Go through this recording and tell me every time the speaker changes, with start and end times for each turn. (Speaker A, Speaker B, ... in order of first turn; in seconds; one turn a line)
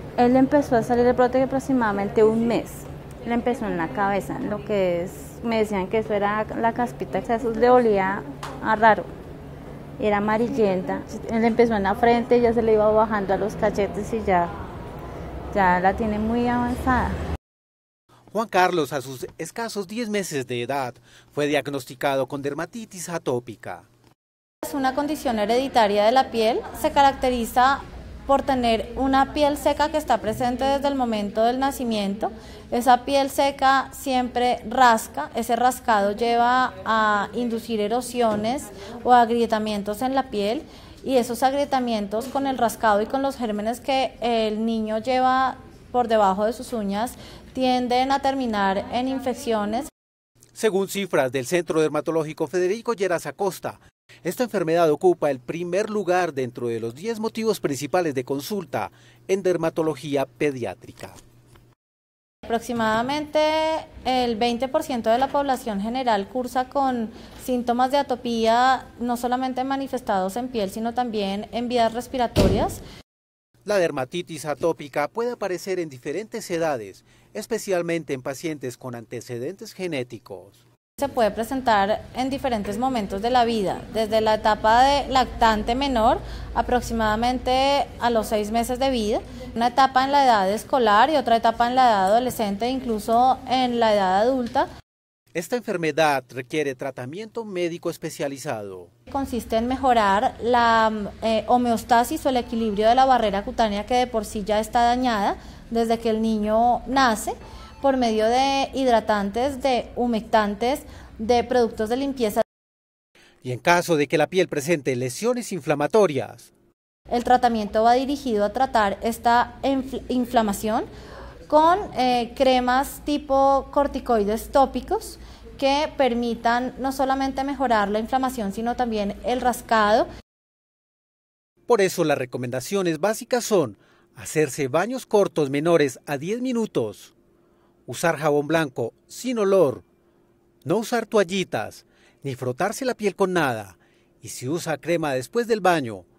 Speaker A: 0.2-9.1
Speaker A: 10.0-14.5
Speaker A: 15.5-17.2
Speaker B: 18.3-23.9
Speaker C: 24.6-49.9
Speaker B: 50.5-61.2
Speaker C: 62.5-72.8
Speaker B: 73.7-80.6
Speaker C: 81.0-94.7
Speaker B: 95.3-98.9
Speaker C: 99.1-112.4
Speaker B: 113.4-116.5
Speaker C: 117.1-120.9
Speaker C: 121.5-130.1
Speaker B: 131.7-137.1
Speaker B: 137.9-139.8
Speaker B: 140.6-146.1